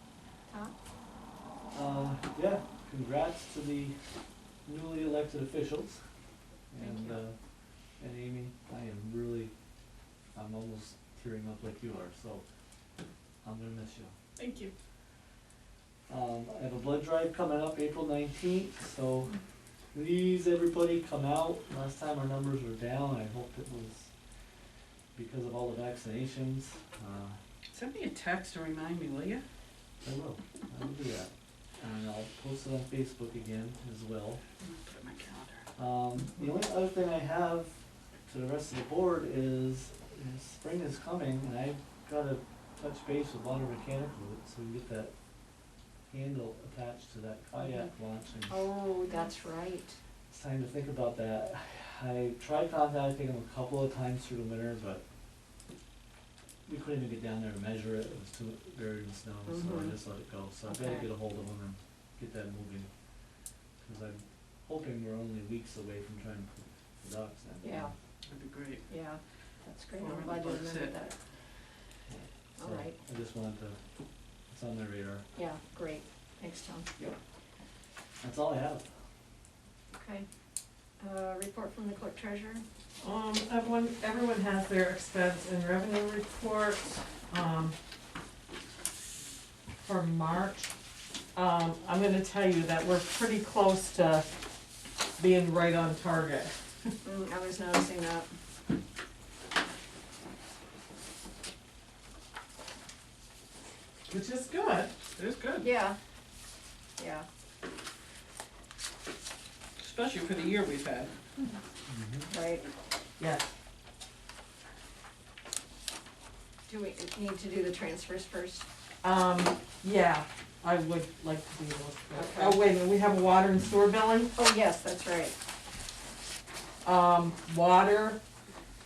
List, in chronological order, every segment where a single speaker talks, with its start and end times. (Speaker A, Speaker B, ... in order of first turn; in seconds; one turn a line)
Speaker A: 0.5-0.7
Speaker B: 1.7-4.0
Speaker B: 4.7-6.0
Speaker B: 6.7-7.3
Speaker A: 6.8-7.1
Speaker B: 8.0-9.5
Speaker B: 10.3-12.4
Speaker B: 13.4-14.1
Speaker C: 14.4-14.7
Speaker B: 16.1-19.3
Speaker B: 19.9-24.1
Speaker B: 25.1-27.4
Speaker C: 27.7-29.4
Speaker B: 30.0-34.4
Speaker C: 34.6-35.7
Speaker B: 35.8-37.7
Speaker B: 38.3-45.1
Speaker B: 46.1-48.7
Speaker A: 48.5-50.0
Speaker B: 50.3-55.0
Speaker B: 56.7-62.9
Speaker A: 59.5-60.0
Speaker A: 60.7-61.1
Speaker B: 63.8-67.9
Speaker A: 67.6-67.9
Speaker C: 68.3-68.9
Speaker A: 68.9-71.1
Speaker C: 70.0-70.9
Speaker B: 72.1-73.8
Speaker A: 72.5-73.0
Speaker B: 74.5-75.2
Speaker A: 75.4-77.1
Speaker B: 78.2-78.9
Speaker A: 79.9-80.2
Speaker A: 81.0-82.6
Speaker D: 83.0-87.8
Speaker D: 89.8-90.7
Speaker D: 91.3-94.3
Speaker D: 95.2-96.9
Speaker A: 97.0-98.3
Speaker D: 104.1-104.9
Speaker C: 105.1-105.7
Speaker A: 105.6-106.0
Speaker A: 107.0-107.2
Speaker C: 109.8-111.1
Speaker B: 111.9-112.3
Speaker A: 112.3-112.6
Speaker D: 113.2-113.5
Speaker A: 116.7-118.7
Speaker D: 119.0-124.3
Speaker A: 122.1-122.6
Speaker A: 124.3-125.4
Speaker D: 126.8-128.2